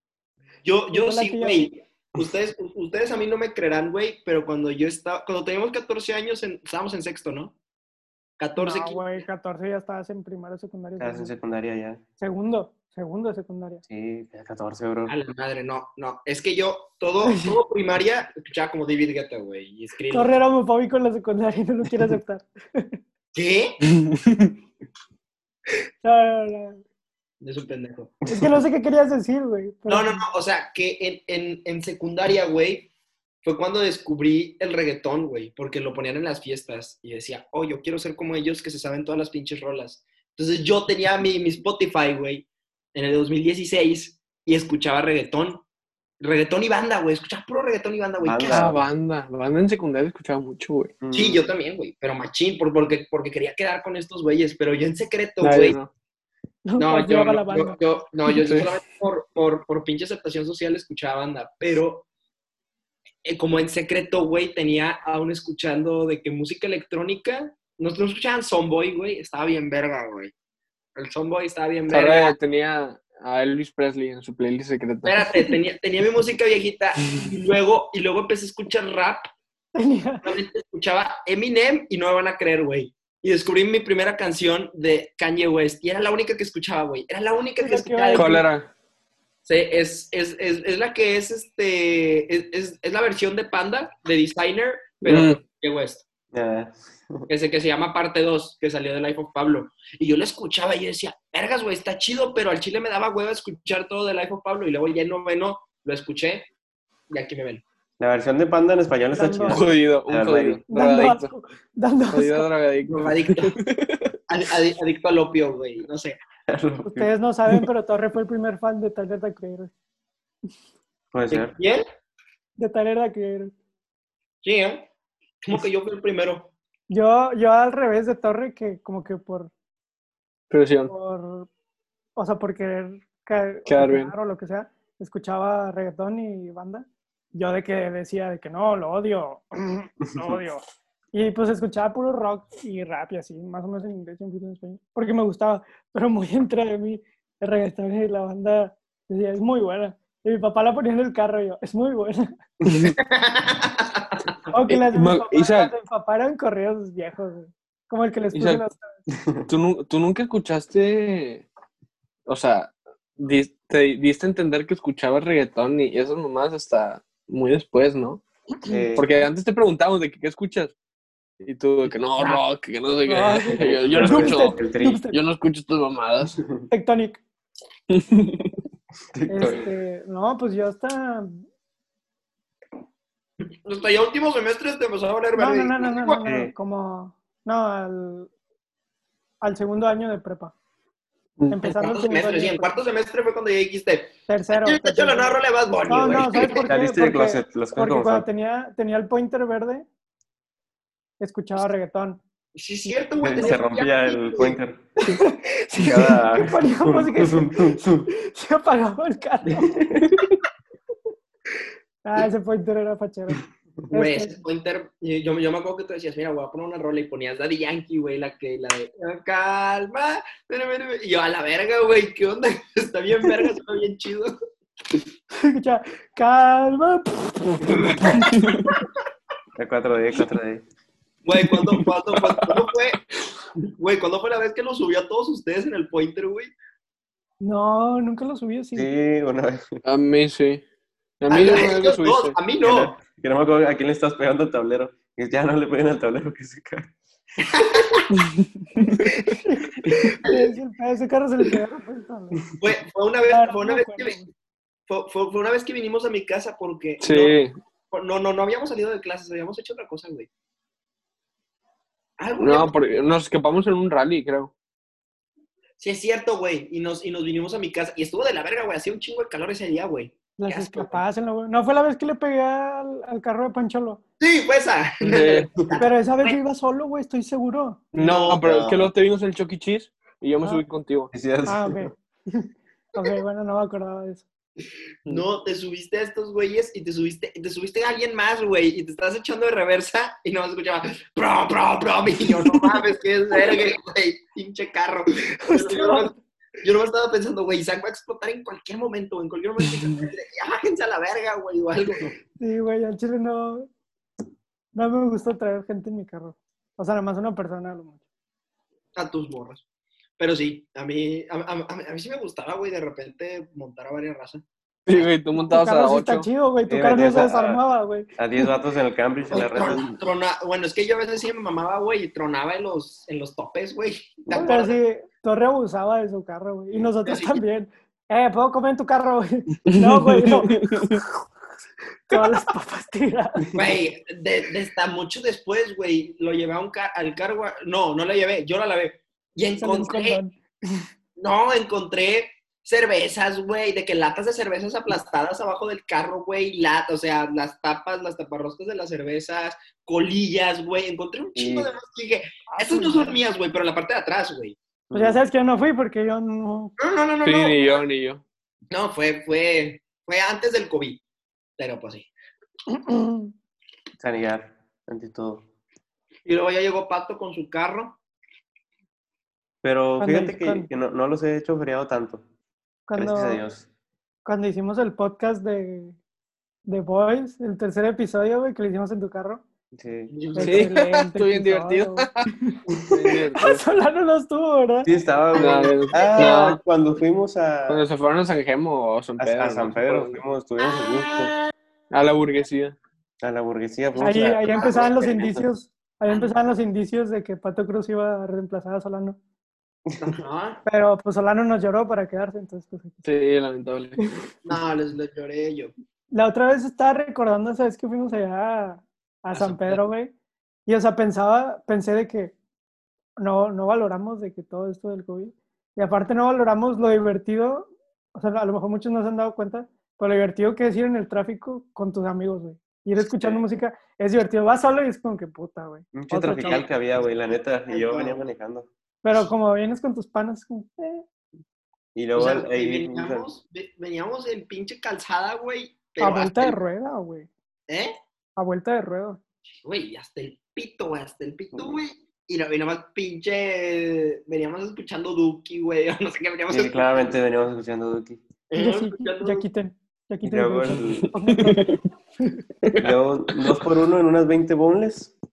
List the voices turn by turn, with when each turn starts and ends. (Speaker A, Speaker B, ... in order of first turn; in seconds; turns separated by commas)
Speaker A: 0.6-7.5, Speaker B: 0.9-1.7, Speaker A: 8.4-9.2, Speaker B: 8.6-11.3, Speaker C: 11.0-12.0, Speaker B: 12.2-13.8, Speaker C: 13.9-15.1, Speaker A: 15.1-20.4, Speaker B: 17.2-17.6, Speaker B: 20.1-23.0, Speaker A: 23.3-23.8, Speaker D: 23.9-24.6, Speaker B: 26.0-26.8, Speaker A: 27.4-28.2, Speaker B: 28.3-30.2, Speaker A: 29.9-32.9, Speaker A: 33.4-45.6, Speaker A: 46.2-48.7, Speaker C: 48.2-48.8, Speaker D: 48.5-51.0, Speaker C: 51.0-51.4, Speaker A: 51.1-55.8, Speaker D: 55.4-55.9, Speaker B: 56.6-58.0, Speaker A: 56.8-62.1, Speaker D: 58.4-58.7, Speaker A: 63.2-70.3, Speaker A: 71.0-72.4, Speaker D: 71.9-75.3, Speaker A: 75.0-79.3, Speaker B: 79.8-80.4, Speaker A: 80.2-88.4, Speaker B: 87.6-88.5, Speaker D: 88.1-88.7, Speaker A: 89.5-96.0, Speaker D: 95.0-95.4, Speaker C: 96.3-97.3, Speaker A: 97.3-106.5, Speaker A: 107.1-107.6, Speaker C: 108.0-110.6, Speaker B: 109.1-109.6, Speaker D: 109.5-111.3, Speaker B: 110.7-112.5, Speaker D: 112.1-114.2, Speaker A: 112.9-113.6, Speaker A: 114.3-116.2, Speaker C: 116.5-117.1, Speaker B: 116.8-119.7, Speaker C: 121.1-121.5, Speaker A: 121.3-121.8, Speaker B: 122.6-123.5, Speaker A: 124.4-124.9, Speaker A: 125.4-126.5, Speaker B: 126.9-129.5, Speaker D: 130.5-130.9, Speaker B: 130.9-131.5, Speaker B: 132.2-152.3, Speaker D: 133.7-134.1, Speaker D: 152.7-153.0, Speaker A: 152.9-154.2, Speaker B: 154.5-159.0, Speaker D: 154.7-155.7, Speaker D: 158.3-158.6, Speaker C: 159.1-159.5, Speaker D: 159.5-161.4, Speaker D: 162.3-168.2, Speaker C: 168.7-169.2, Speaker D: 168.9-170.8, Speaker D: 171.4-176.4, Speaker B: 173.1-175.2, Speaker C: 173.6-175.1, Speaker B: 176.7-177.2, Speaker D: 177.9-178.6, Speaker C: 179.1-179.7, Speaker B: 179.3-181.4, Speaker A: 183.7-186.2, Speaker B: 185.4-188.3, Speaker C: 186.2-186.5, Speaker B: 189.4-190.5, Speaker B: 191.5-192.8, Speaker A: 191.7-196.7, Speaker B: 194.3-199.9, Speaker C: 196.4-198.3, Speaker B: 201.2-202.2, Speaker A: 202.6-204.6, Speaker C: 203.2-204.8, Speaker B: 205.0-209.8, Speaker C: 205.8-208.1, Speaker C: 209.6-210.2, Speaker B: 212.0-214.3, Speaker A: 213.9-224.3, Speaker B: 225.3-228.2, Speaker D: 228.1-228.7, Speaker C: 229.6-230.6, Speaker A: 231.2-233.0, Speaker D: 231.5-232.6, Speaker A: 233.6-236.5, Speaker B: 237.4-238.9, Speaker C: 238.8-239.8, Speaker D: 239.8-240.6, Speaker D: 241.2-242.4, Speaker A: 241.3-243.0, Speaker C: 242.6-246.9, Speaker A: 247.4-248.1, Speaker D: 248.1-249.3, Speaker B: 249.4-252.4, Speaker A: 252.6-254.2, Speaker B: 253.3-254.3, Speaker A: 254.9-257.4, Speaker D: 257.0-257.5, Speaker A: 257.9-260.3, Speaker A: 262.2-262.7, Speaker D: 262.4-264.5, Speaker A: 265.8-271.0, Speaker B: 270.4-274.0, Speaker A: 274.2-276.4, Speaker D: 275.0-275.5, Speaker B: 275.8-277.8, Speaker D: 277.9-281.1, Speaker A: 278.0-278.4, Speaker C: 278.4-278.9, Speaker C: 281.1-281.9, Speaker B: 281.5-284.3, Speaker A: 285.1-302.1, Speaker B: 295.4-296.1, Speaker B: 302.4-303.7, Speaker B: 304.8-308.0, Speaker A: 309.0-309.6, Speaker A: 310.2-314.4, Speaker D: 314.9-316.3, Speaker B: 315.4-318.5, Speaker C: 316.7-317.6, Speaker C: 318.2-319.9, Speaker A: 319.3-324.8, Speaker B: 324.3-330.6, Speaker A: 327.0-327.4, Speaker D: 329.7-331.0, Speaker B: 332.1-333.5, Speaker A: 333.5-340.2, Speaker B: 339.6-340.9, Speaker A: 341.2-354.6, Speaker C: 351.4-351.7, Speaker B: 352.5-353.2, Speaker C: 354.9-355.2, Speaker B: 354.9-356.7, Speaker A: 356.8-357.8, Speaker D: 357.2-358.2, Speaker A: 358.7-361.0, Speaker A: 361.6-362.1, Speaker B: 362.7-363.3, Speaker C: 364.0-365.4, Speaker A: 366.3-368.0, Speaker C: 369.6-372.2, Speaker B: 370.0-370.7, Speaker B: 372.9-373.4, Speaker C: 372.9-373.7, Speaker B: 374.2-376.0, Speaker B: 376.7-379.4, Speaker C: 379.7-380.1, Speaker A: 380.1-380.7, Speaker B: 380.4-382.6, Speaker D: 380.4-382.3, Speaker D: 382.9-383.6, Speaker B: 383.3-384.9, Speaker C: 384.9-387.9, Speaker D: 385.4-386.6, Speaker A: 385.9-386.4, Speaker D: 387.7-390.2, Speaker C: 389.2-391.3, Speaker A: 390.6-391.4, Speaker D: 391.9-392.8, Speaker C: 393.2-395.4, Speaker B: 394.0-399.2, Speaker A: 394.5-395.0, Speaker A: 400.0-400.6, Speaker B: 400.7-403.1, Speaker D: 403.0-404.1, Speaker A: 404.4-405.7, Speaker B: 406.1-410.1, Speaker B: 410.7-412.3, Speaker B: 413.2-426.6, Speaker C: 425.9-428.7, Speaker A: 427.7-428.2, Speaker B: 429.0-431.0, Speaker C: 431.9-433.3, Speaker A: 432.1-436.6, Speaker B: 436.0-437.3, Speaker A: 437.7-437.9, Speaker B: 438.4-439.2, Speaker A: 439.6-447.0, Speaker C: 446.5-448.2, Speaker A: 448.5-449.5, Speaker B: 448.6-452.4, Speaker C: 450.2-451.1, Speaker D: 451.0-451.8, Speaker C: 452.8-455.1